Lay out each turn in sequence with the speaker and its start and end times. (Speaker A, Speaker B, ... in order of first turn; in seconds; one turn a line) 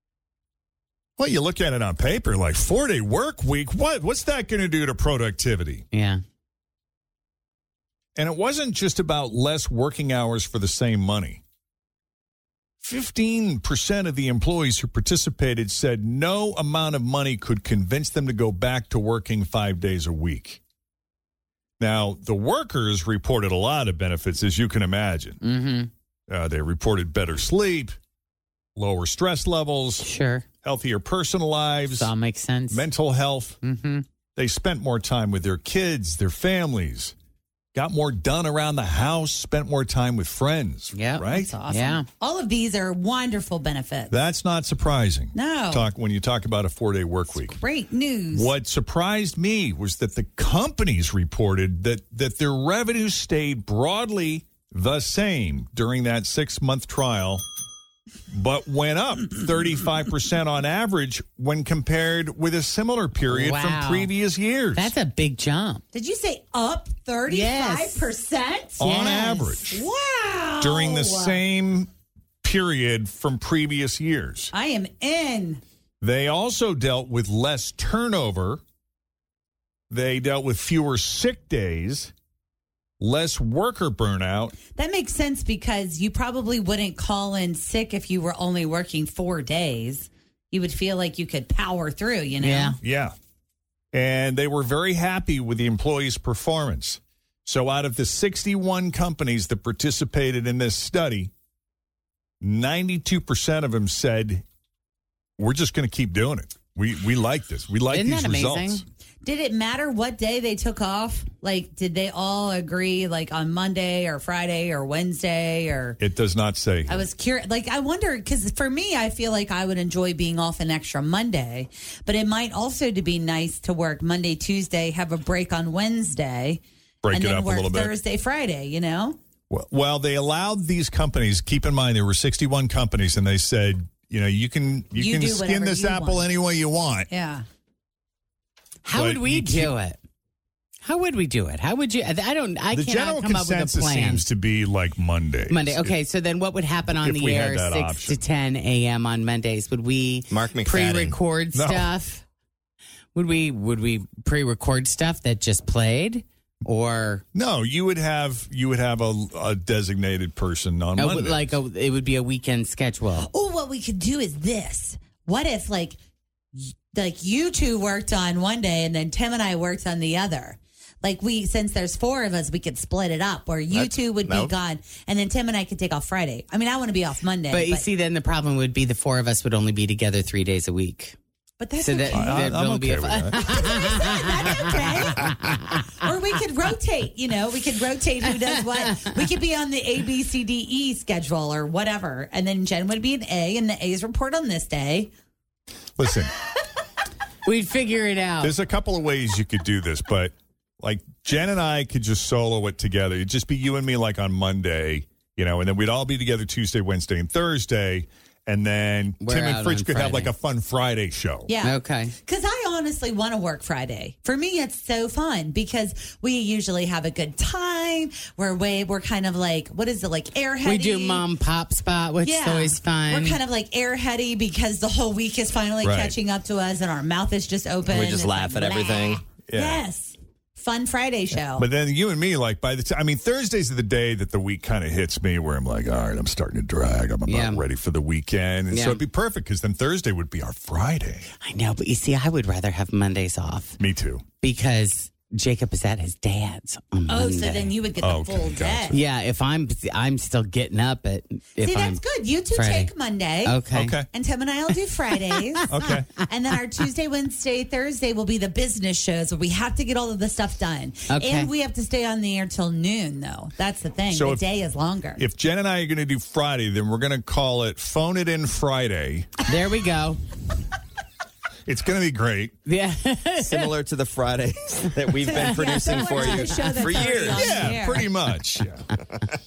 Speaker A: 1.2-5.8
Speaker B: 5.9-6.2
Speaker A: 8.2-11.4
Speaker A: 12.8-20.6
Speaker A: 21.8-25.4
Speaker B: 25.4-25.9
Speaker A: 26.3-28.0
Speaker A: 28.7-30.1
Speaker B: 30.0-30.4
Speaker A: 30.6-32.1
Speaker B: 31.9-32.9
Speaker A: 32.7-33.6
Speaker B: 33.6-34.0
Speaker A: 34.4-37.1
Speaker A: 37.7-41.5
Speaker B: 40.9-42.0
Speaker C: 41.2-44.1
Speaker A: 44.1-47.6
Speaker C: 45.3-45.9
Speaker C: 47.5-48.5
Speaker A: 48.3-57.4
Speaker A: 58.3-64.9
Speaker B: 63.3-64.1
Speaker B: 64.7-65.8
Speaker C: 65.9-71.4
Speaker B: 67.3-68.1
Speaker A: 68.8-69.8
Speaker B: 68.8-69.2
Speaker A: 70.6-71.9
Speaker A: 72.4-74.5
Speaker C: 74.5-75.6
Speaker A: 76.0-78.6
Speaker A: 79.9-82.1
Speaker A: 83.0-84.5
Speaker C: 84.7-92.8
Speaker B: 92.4-92.8
Speaker A: 92.8-93.1
Speaker A: 93.9-101.3
Speaker A: 102.4-104.4
Speaker A: 105.4-108.8
Speaker B: 107.9-108.8
Speaker C: 109.2-116.0
Speaker A: 116.0-117.1
Speaker C: 116.9-129.2
Speaker A: 127.0-127.9
Speaker A: 129.5-137.1
Speaker C: 134.9-136.2
Speaker C: 137.1-137.4
Speaker B: 138.8-140.0
Speaker A: 138.9-139.7
Speaker B: 140.8-144.2
Speaker A: 142.7-146.0
Speaker B: 145.5-152.2
Speaker A: 147.0-148.2
Speaker D: 150.3-151.2
Speaker A: 151.5-151.9
Speaker B: 153.1-157.2
Speaker A: 157.3-161.5
Speaker B: 160.9-163.3
Speaker C: 163.2-166.0
Speaker C: 166.6-177.8
Speaker D: 173.7-174.5
Speaker B: 177.5-181.2
Speaker C: 181.6-182.5
Speaker B: 181.8-185.9
Speaker A: 182.1-183.7
Speaker C: 183.4-185.4
Speaker C: 186.0-195.1
Speaker A: 196.0-196.3
Speaker B: 197.4-198.5
Speaker A: 198.4-211.5
Speaker B: 209.2-210.3
Speaker C: 211.5-221.2
Speaker B: 211.6-212.1
Speaker B: 220.6-223.4
Speaker C: 222.2-231.7
Speaker A: 225.8-226.2
Speaker D: 227.8-229.2
Speaker A: 229.5-229.8
Speaker A: 231.5-241.3
Speaker B: 237.3-237.6
Speaker B: 238.7-239.0
Speaker B: 241.4-243.8
Speaker A: 243.8-244.2
Speaker B: 244.4-247.7
Speaker C: 247.1-249.0
Speaker A: 248.0-249.0
Speaker B: 248.9-252.0
Speaker C: 251.6-265.2
Speaker B: 252.5-252.9
Speaker B: 253.4-253.9
Speaker A: 253.7-254.1
Speaker A: 255.7-256.1
Speaker B: 261.1-261.5
Speaker A: 264.1-264.4
Speaker A: 265.1-269.3
Speaker B: 269.5-270.2
Speaker A: 271.6-272.6
Speaker B: 272.6-273.7
Speaker D: 273.4-277.6
Speaker C: 275.2-278.1
Speaker B: 275.4-277.2
Speaker A: 277.3-278.8